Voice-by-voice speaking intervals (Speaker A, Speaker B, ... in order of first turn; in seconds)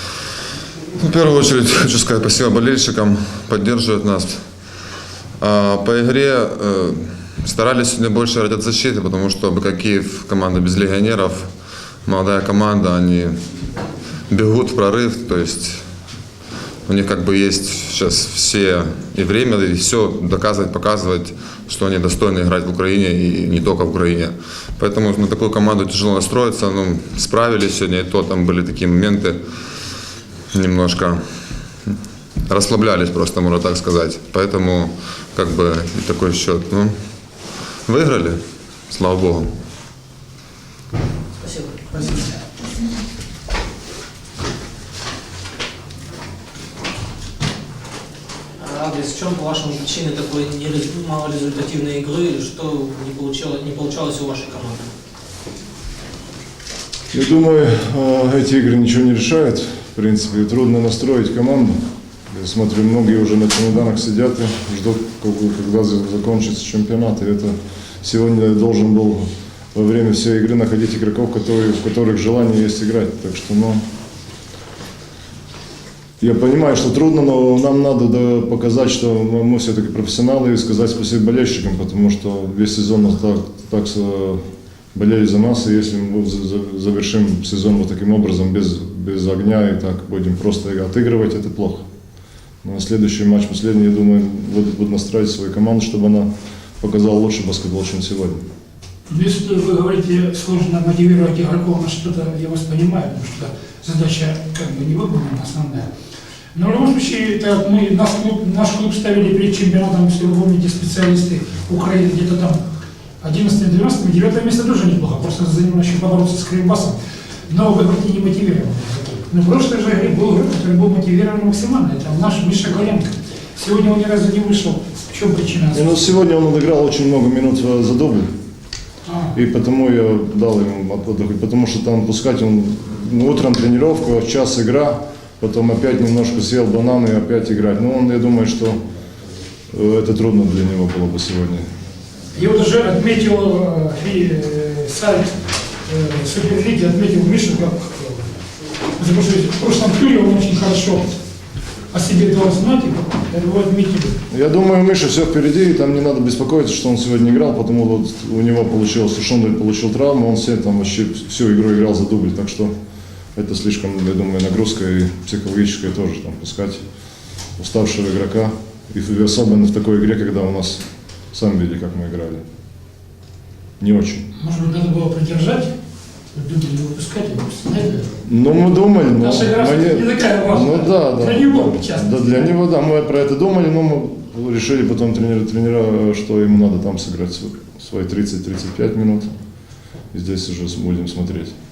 Speaker A: 0.9-4.6, 5.4-13.4, 14.3-15.9, 16.8-29.4, 30.5-31.9, 32.5-37.0, 37.8-39.5
Speaker B: 41.4-42.2, 48.5-54.9
Speaker C: 57.1-61.8, 62.3-73.8, 76.2-84.4, 84.9-91.8, 92.6-98.4, 125.7-128.3, 129.3-138.8, 139.7-141.6, 154.3-162.7, 163.3-166.8, 167.6-172.4, 173.8-174.2, 178.2-189.3, 190.1-191.5
Speaker D: 99.1-105.9, 106.5-112.6, 113.2-126.0, 129.1-129.4, 142.3-145.3, 145.8-148.3, 149.0-151.2, 151.9-154.2, 174.4-175.7, 176.3-178.2, 179.0-182.5